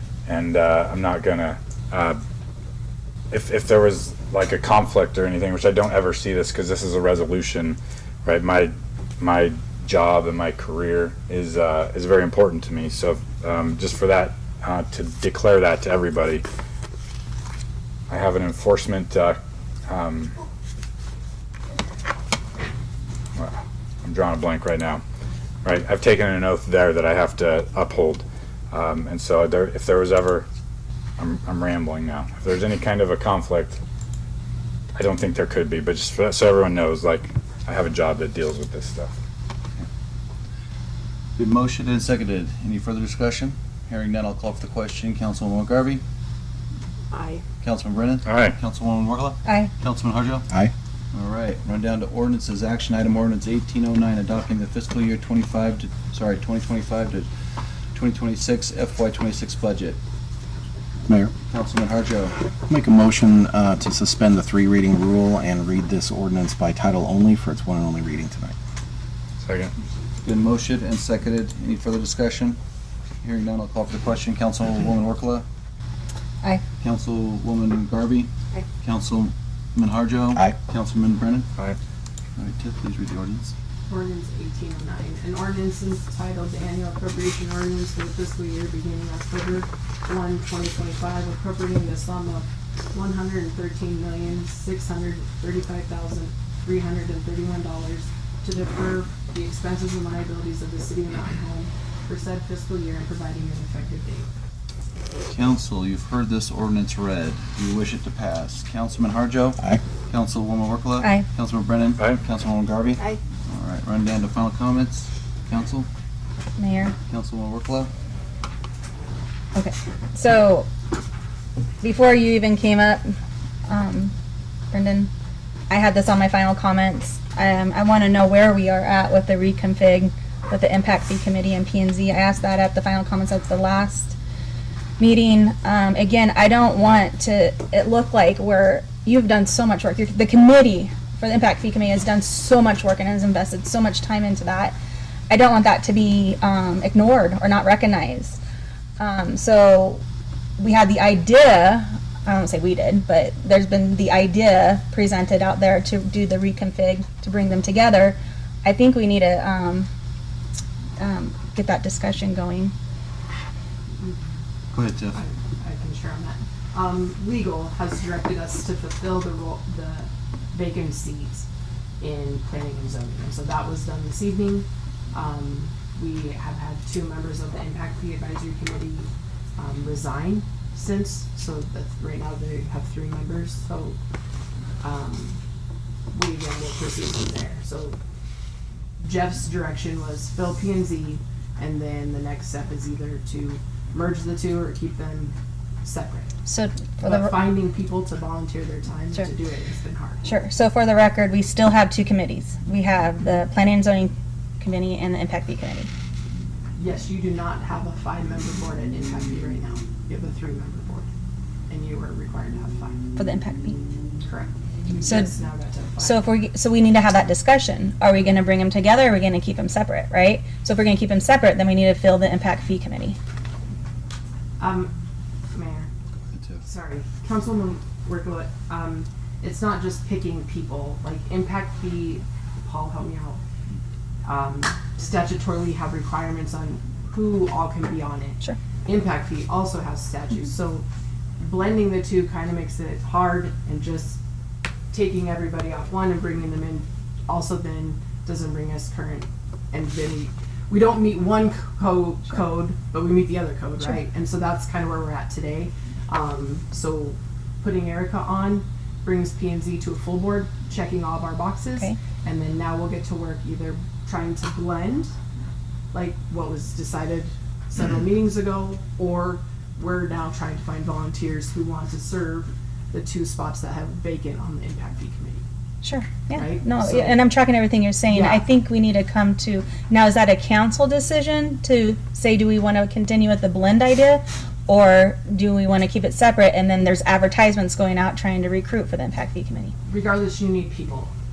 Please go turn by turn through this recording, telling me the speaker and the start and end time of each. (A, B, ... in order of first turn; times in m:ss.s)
0:00.2-0:02.2 A
0:03.3-0:16.4 A
0:18.1-0:20.3 A
0:23.4-0:25.0 A
0:25.6-0:30.4 A
0:31.2-0:33.8 A
0:35.0-0:39.2 A
0:41.4-0:46.0 B
0:47.1-0:47.4 C
0:47.6-0:50.5 B
0:48.2-0:48.6 A
0:49.4-0:49.7 D
0:51.1-0:57.3 B
0:57.9-1:00.0 B
1:01.5-1:02.4 B
1:02.6-1:08.5 E
1:09.4-1:09.7 A
1:10.2-1:12.6 B
1:13.2-1:15.4 B
1:16.8-1:21.5 B
1:22.4-1:23.5 B
1:23.9-1:44.3 C
1:45.3-1:55.9 B
1:56.6-1:56.9 D
1:57.1-1:57.9 B
1:59.5-2:00.7 D
2:01.8-2:03.1 D
2:03.7-2:04.1 D
2:04.7-2:05.1 D
2:05.7-2:14.2 D
2:15.0-2:24.8 D
2:25.3-2:28.4 D
2:29.0-2:30.0 D
2:30.6-2:39.9 D
2:41.0-2:42.7 D
2:44.0-2:44.4 C
2:44.7-2:45.2 B
2:45.1-2:51.5 C
2:52.0-3:04.0 C
3:04.8-3:05.4 C
3:06.1-3:08.0 C
3:09.0-3:16.3 C
3:16.4-3:17.5 D
3:17.0-3:20.3 C
3:20.2-3:25.9 D
3:26.8-3:31.1 C
3:31.7-3:33.0 C
3:33.2-3:33.8 D
3:34.2-3:36.2 C
3:35.0-3:35.3 D
3:36.0-3:43.2 D
3:44.6-3:44.9 C
3:45.5-3:45.9 C
3:46.3-3:46.6 B
3:46.6-3:53.4 C
3:54.2-4:00.8 C
4:01.4-4:04.2 C
4:04.9-4:25.1 C
4:25.9-4:35.4 C
4:35.8-4:49.7 D
4:36.3-4:37.2 C
4:38.1-4:38.4 C
4:49.9-4:51.1 C